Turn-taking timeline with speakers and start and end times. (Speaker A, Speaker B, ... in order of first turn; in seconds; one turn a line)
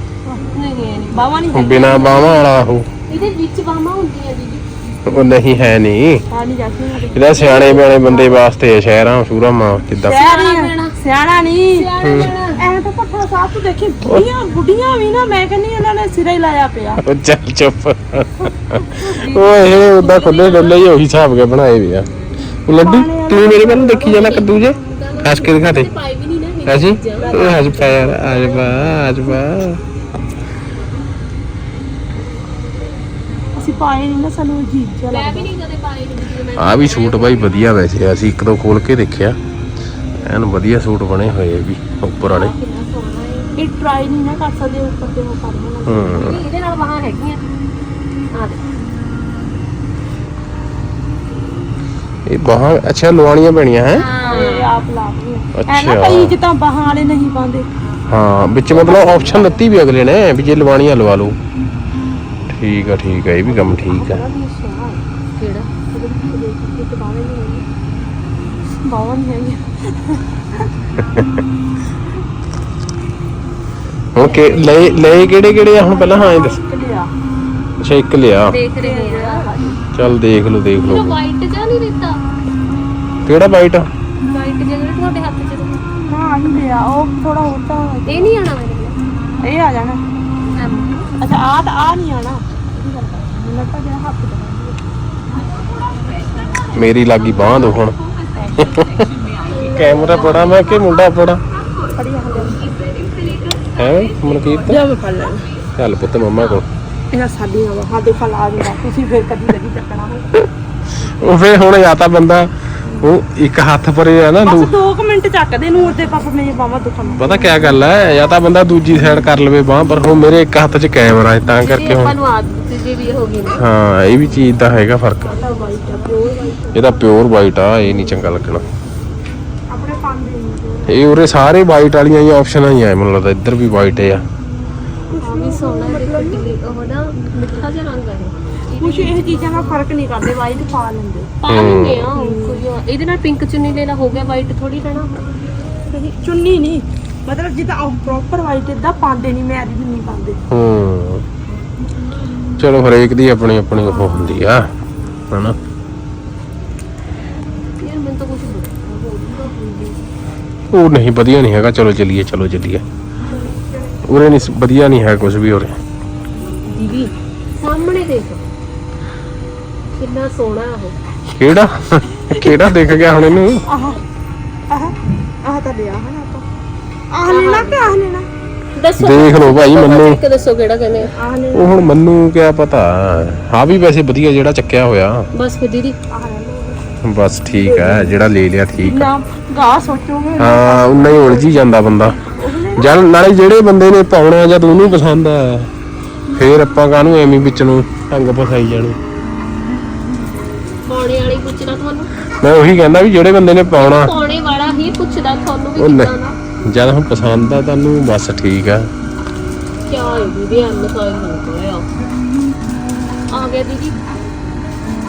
Speaker A: 0.2-2.0
Speaker B: 0.5-4.6
Speaker C: 1.5-2.9
Speaker C: 5.0-6.2
Speaker A: 6.3-8.3
Speaker C: 7.1-10.2
Speaker B: 7.5-7.9
Speaker A: 10.0-17.0
Speaker B: 10.1-10.9
Speaker B: 11.7-12.6
Speaker C: 12.0-12.3
Speaker C: 17.0-22.1
Speaker B: 18.9-20.9
Speaker C: 22.6-25.9
Speaker A: 22.8-24.5
Speaker B: 24.0-29.0
Speaker C: 26.6-29.8
Speaker A: 27.1-27.8
Speaker A: 33.5-35.5
Speaker B: 35.1-37.7
Speaker C: 36.6-39.4
Speaker C: 40.2-42.5
Speaker B: 42.2-43.5
Speaker A: 43.6-46.5
Speaker C: 45.9-46.4
Speaker B: 46.1-47.4
Speaker B: 48.3-48.6
Speaker C: 52.2-54.0
Speaker B: 53.9-54.8
Speaker A: 54.2-57.7
Speaker C: 55.5-56.4
Speaker C: 58.1-61.4
Speaker A: 58.7-59.6
Speaker C: 62.5-64.2
Speaker A: 63.5-65.0
Speaker B: 65.3-65.7
Speaker A: 65.9-67.6
Speaker A: 68.8-70.7
Speaker C: 71.1-71.4
Speaker C: 74.1-76.6
Speaker A: 74.2-77.1
Speaker C: 77.8-78.5
Speaker B: 78.5-79.5
Speaker A: 78.8-79.8
Speaker C: 79.9-81.2
Speaker B: 80.8-82.2
Speaker C: 83.2-83.9
Speaker B: 84.2-85.8
Speaker A: 86.1-88.3
Speaker B: 88.1-89.0
Speaker A: 89.4-90.0
Speaker B: 90.5-91.1
Speaker A: 91.1-94.8
Speaker C: 96.7-98.0
Speaker B: 97.3-97.8
Speaker C: 98.5-99.1
Speaker A: 99.5-100.6
Speaker C: 99.6-101.4
Speaker B: 100.0-100.7
Speaker A: 101.9-102.7
Speaker B: 102.3-104.3
Speaker C: 103.7-104.8
Speaker A: 104.6-105.5
Speaker C: 105.8-106.7
Speaker A: 107.1-110.5
Speaker C: 111.0-114.7
Speaker A: 114.4-117.6
Speaker C: 117.2-122.1
Speaker B: 121.6-123.7
Speaker C: 123.6-125.4
Speaker B: 125.2-126.2
Speaker A: 125.2-127.1
Speaker C: 126.7-128.6
Speaker A: 129.7-131.3
Speaker C: 130.9-134.2
Speaker A: 135.1-136.5
Speaker B: 135.2-139.8
Speaker A: 137.3-137.6
Speaker A: 138.8-141.4
Speaker B: 141.4-145.2
Speaker C: 141.5-142.1
Speaker A: 142.1-142.6
Speaker A: 145.9-150.4
Speaker C: 150.5-151.2
Speaker C: 152.6-154.7
Speaker A: 153.8-154.4
Speaker C: 155.3-155.6
Speaker B: 157.8-160.0
Speaker C: 160.7-162.8
Speaker A: 163.3-164.1
Speaker C: 164.0-165.8
Speaker B: 166.4-168.4
Speaker B: 169.9-170.9
Speaker C: 171.3-173.6
Speaker A: 172.3-173.0
Speaker A: 173.7-174.0
Speaker A: 174.7-176.4
Speaker A: 177.1-178.3
Speaker B: 177.3-177.9
Speaker B: 178.7-181.1
Speaker C: 179.0-180.2
Speaker A: 181.1-181.9
Speaker C: 181.5-185.3
Speaker B: 185.3-186.0
Speaker A: 186.1-187.0
Speaker C: 187.0-189.1
Speaker A: 187.6-188.2
Speaker A: 188.7-193.0
Speaker C: 190.4-192.2
Speaker C: 192.7-195.7
Speaker C: 196.3-199.0
Speaker B: 200.8-202.1
Speaker C: 202.4-204.1
Speaker B: 203.8-206.3
Speaker C: 205.8-206.1
Speaker C: 206.7-208.9
Speaker B: 209.9-211.9
Speaker B: 213.3-214.0